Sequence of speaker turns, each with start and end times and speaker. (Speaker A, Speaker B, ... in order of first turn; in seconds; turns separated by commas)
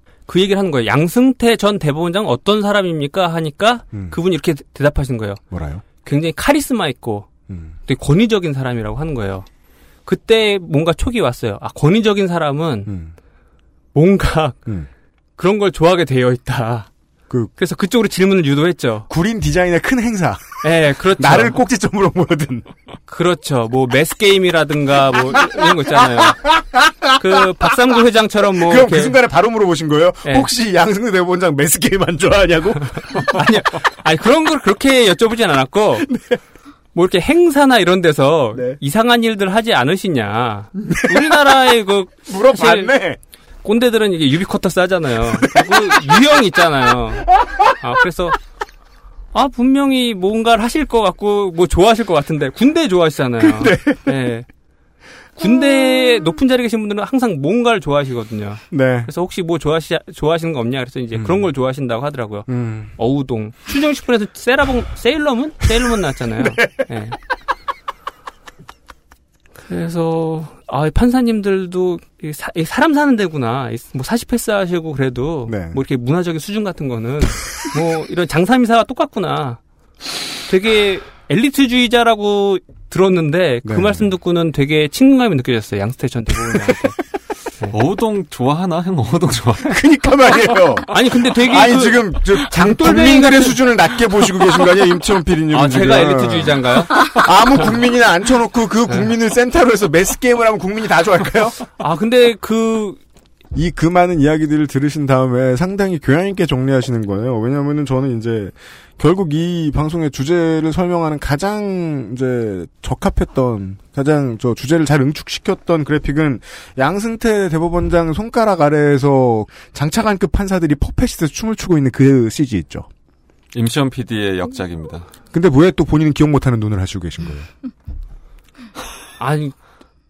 Speaker A: 0.3-5.4, Speaker B: 3.9-4.2, Speaker B: 5.5-5.8, Speaker A: 5.9-9.5, Speaker B: 7.5-7.8, Speaker A: 10.1-12.9, Speaker B: 12.8-13.1, Speaker A: 13.9-14.6, Speaker A: 15.4-16.9, Speaker A: 17.6-19.1, Speaker B: 19.1-22.7, Speaker A: 20.6-21.6, Speaker A: 23.1-26.5, Speaker B: 25.3-27.8, Speaker A: 27.2-29.2, Speaker B: 28.6-33.4, Speaker A: 33.2-36.1, Speaker B: 36.0-36.4, Speaker A: 36.9-42.9, Speaker B: 38.5-38.8, Speaker B: 40.8-41.4, Speaker B: 42.3-43.2, Speaker A: 43.6-48.4, Speaker B: 45.4-46.2, Speaker A: 49.3-54.5, Speaker B: 53.4-54.2, Speaker B: 55.4-56.1, Speaker A: 55.4-67.2, Speaker B: 58.7-59.1, Speaker B: 61.1-61.5, Speaker B: 62.5-62.9, Speaker B: 66.4-66.9, Speaker A: 69.6-79.6, Speaker B: 75.5-75.8, Speaker A: 80.5-86.9, Speaker B: 83.6-84.1, Speaker C: 87.7-89.8, Speaker B: 89.7-101.6, Speaker A: 90.9-93.6, Speaker A: 95.5-97.1, Speaker A: 101.8-103.0, Speaker B: 103.5-122.9, Speaker C: 123.5-125.1, Speaker B: 125.3-127.5, Speaker A: 129.2-129.6